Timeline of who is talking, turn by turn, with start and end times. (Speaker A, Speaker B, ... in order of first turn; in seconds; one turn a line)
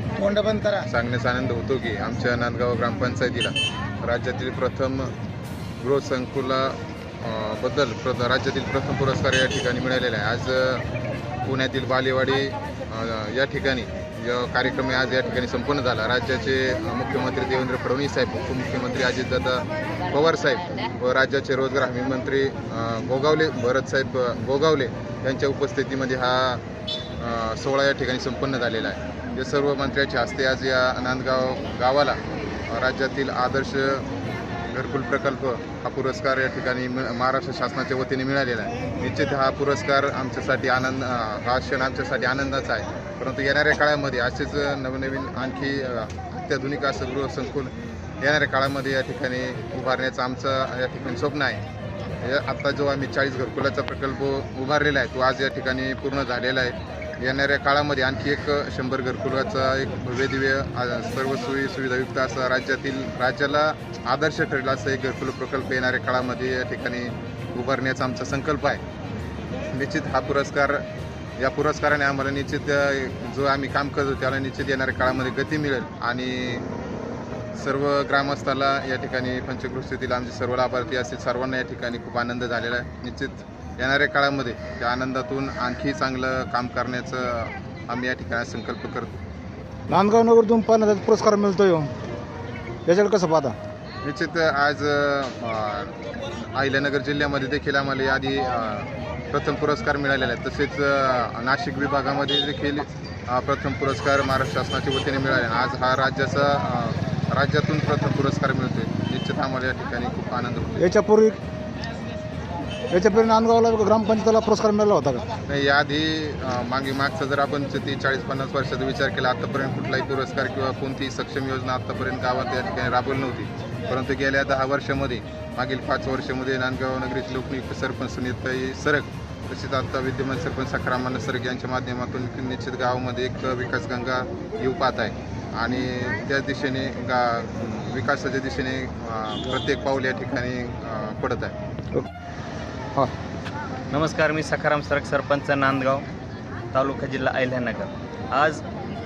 Speaker A: 0.2-0.9
Speaker B: 0.9-5.1
Speaker B: 5.8-10.8
Speaker B: 11.5-26.6
Speaker B: 27.2-34.1
Speaker B: 34.7-51.6
Speaker B: 52.2-68.8
Speaker B: 69.7-70.8
Speaker B: 71.4-76.7
Speaker B: 77.5-89.2
Speaker A: 89.9-91.9
Speaker A: 92.9-93.6
Speaker B: 94.0-110.8
Speaker A: 110.8-111.4
Speaker A: 112.9-115.2
Speaker B: 115.5-141.6
Speaker C: 143.9-146.1
Speaker C: 146.7-148.6